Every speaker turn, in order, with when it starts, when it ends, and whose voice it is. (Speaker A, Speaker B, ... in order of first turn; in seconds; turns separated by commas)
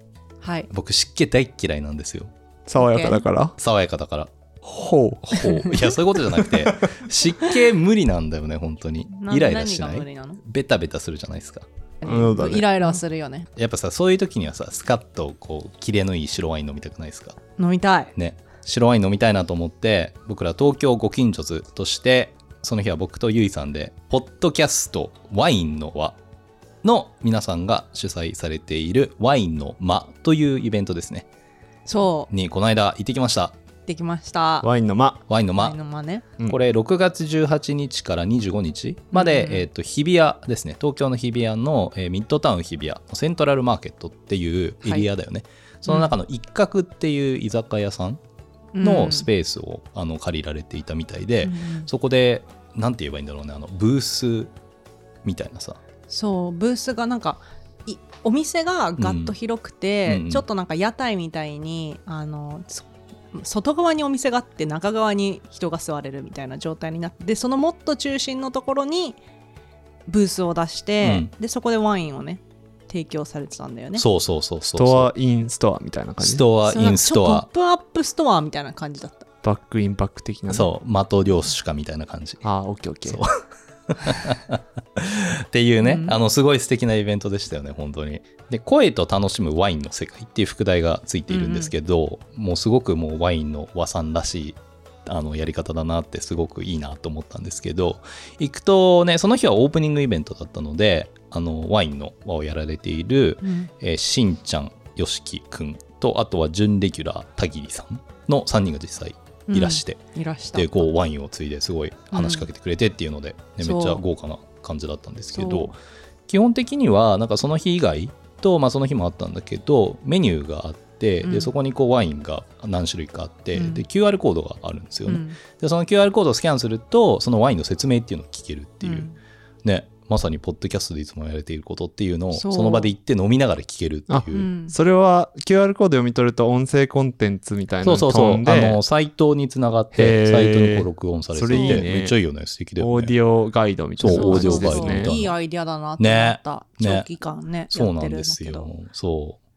Speaker A: 0.4-0.7, Speaker B: 0.7-2.3, Speaker C: 2.7-3.5, Speaker A: 2.8-3.2, Speaker B: 3.6-4.3, Speaker C: 4.6-7.0, Speaker B: 5.3-11.6, Speaker A: 9.1-10.4, Speaker A: 12.0-13.5, Speaker C: 12.1-13.0, Speaker B: 13.6-17.4, Speaker A: 17.6-18.1, Speaker B: 18.1-26.2, Speaker B: 26.8-31.3, Speaker A: 31.9-32.3, Speaker B: 32.3-33.6, Speaker A: 33.9-34.7, Speaker C: 34.6-35.2, Speaker B: 35.3-35.8, Speaker A: 35.6-36.2, Speaker B: 36.4-48.2, Speaker A: 39.1-39.7, Speaker A: 48.7-49.3, Speaker B: 48.8-54.5, Speaker A: 51.4-51.9, Speaker B: 55.2-55.8, Speaker A: 56.1-69.2, Speaker B: 59.0-59.3, Speaker B: 60.0-60.4, Speaker A: 70.1-74.0, Speaker B: 71.0-71.3, Speaker B: 74.0-75.1, Speaker C: 74.7-76.4, Speaker B: 76.2-77.5, Speaker A: 76.7-79.3, Speaker C: 79.4-80.7, Speaker B: 80.5-82.4, Speaker C: 82.4-83.2, Speaker B: 83.0-110.0, Speaker A: 85.8-86.1, Speaker A: 91.3-91.7, Speaker A: 103.4-103.7, Speaker A: 109.5-110.9, Speaker B: 110.5-115.7, Speaker A: 112.1-112.5, Speaker A: 113.6-114.0, Speaker A: 115.3-115.7, Speaker B: 116.3-129.1, Speaker A: 121.2-121.5, Speaker A: 123.5-123.8, Speaker A: 125.1-125.4, Speaker A: 128.8-129.1, Speaker B: 129.6-134.5, Speaker A: 132.3-132.9, Speaker C: 134.1-138.8, Speaker A: 134.3-134.8, Speaker B: 137.8-143.2, Speaker C: 139.9-142.2, Speaker A: 141.5-141.8, Speaker C: 142.8-145.1, Speaker B: 144.0-145.3, Speaker A: 144.1-148.7, Speaker B: 146.0-147.1, Speaker B: 147.7-149.4